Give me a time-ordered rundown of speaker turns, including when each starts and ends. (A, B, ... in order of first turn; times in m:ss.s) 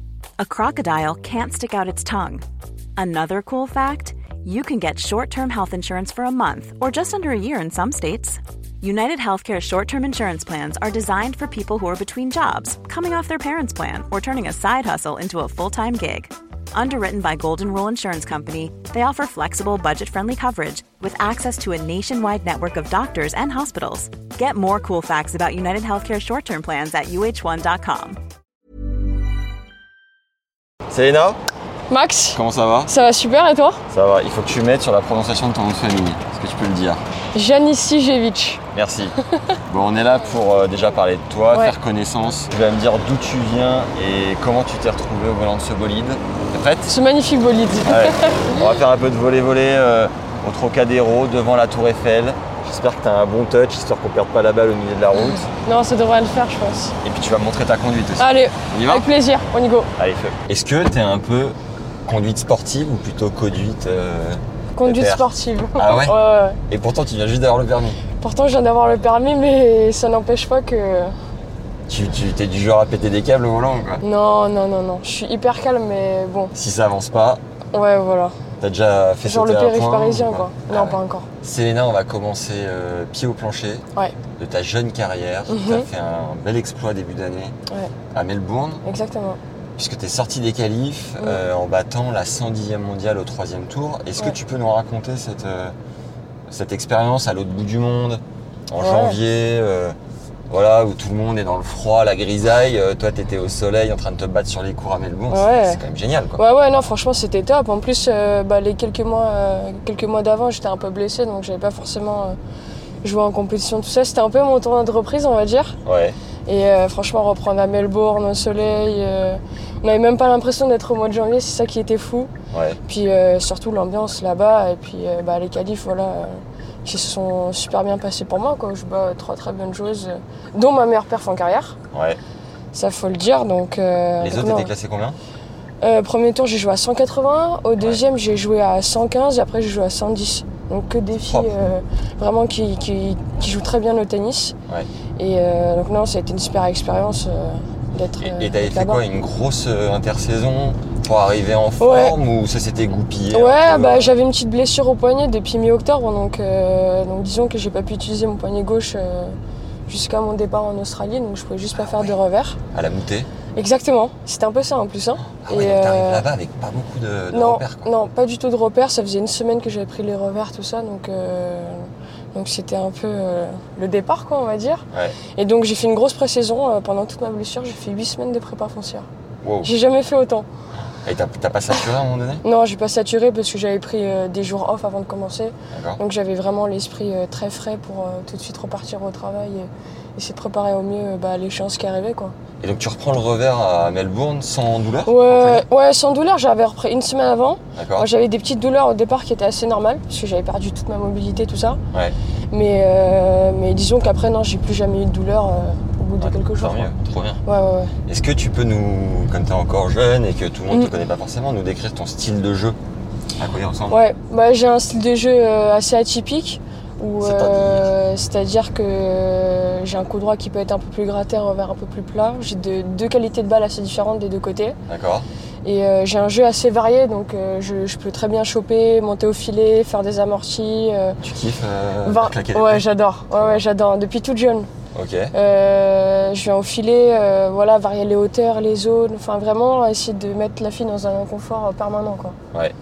0:00.4-0:02.4 A
0:03.0-0:28.2 A
0:30.9-0:31.4 B
0:31.9-0:33.8 C
0:32.3-0:32.9 B
0:33.9-0:37.0 B
0:37.3-0:38.6 C
0:38.7-0:39.2 B
0:39.2-0:39.6 C
0:39.7-0:46.9 B
0:46.9-0:48.6 C
0:47.8-0:55.5 B
0:55.4-0:57.0 C
0:57.0-0:59.1 B
0:58.2-0:59.9 C
1:00.0-1:06.2 B
1:04.8-1:06.6 C
1:06.7-1:08.0 B
1:08.2-1:11.1 C
1:11.9-1:14.0 B
1:14.0-1:16.5 C
1:16.5-1:17.4 B
1:17.7-1:18.4 C
1:18.6-1:23.8 B
1:19.2-1:21.3 C
1:24.4-1:27.6 B
1:25.5-1:25.8 C
1:28.1-1:28.8 B
1:28.8-1:29.4 C
1:29.8-1:35.7 B
1:36.5-1:40.0 B
1:38.8-1:39.2 C
1:40.5-1:46.4 B
1:45.3-1:45.8 C
1:46.4-1:52.4 C
1:53.0-1:55.8 C
1:55.8-1:56.2 B
1:56.5-2:02.3 C
2:02.5-2:02.8 B
2:02.9-2:11.8 C
2:11.9-2:12.2 B
2:12.7-2:14.7 C
2:14.2-2:15.2 B
2:15.8-2:24.6 C
2:21.2-2:21.5 B
2:25.2-2:29.0 C
2:28.2-2:34.1 B
2:31.8-2:32.1 C
2:33.3-2:39.4 C
2:39.9-2:42.6 C
2:41.7-2:42.1 B
2:42.7-2:43.3 B
2:43.5-2:46.2 C
2:45.3-2:47.9 B
2:47.3-2:59.1 C
2:54.9-2:55.2 B
2:59.4-2:59.7 B
2:59.6-3:00.5 C
3:01.0-3:02.4 B
3:02.4-3:12.3 C
3:05.7-3:06.0 B
3:12.6-3:15.6 B
3:15.0-3:21.8 C
3:17.7-3:18.1 B
3:22.5-3:26.9 C
3:26.2-3:27.4 B
3:27.4-3:27.9 C
3:28.0-3:32.8 B
3:33.4-3:34.0 B
3:33.9-3:44.8 C
3:37.2-3:37.9 B
3:44.9-3:45.3 B
3:45.6-3:51.2 C
3:51.2-3:53.6 B
3:52.0-3:54.7 C
3:54.9-3:55.3 B
3:55.3-4:02.4 C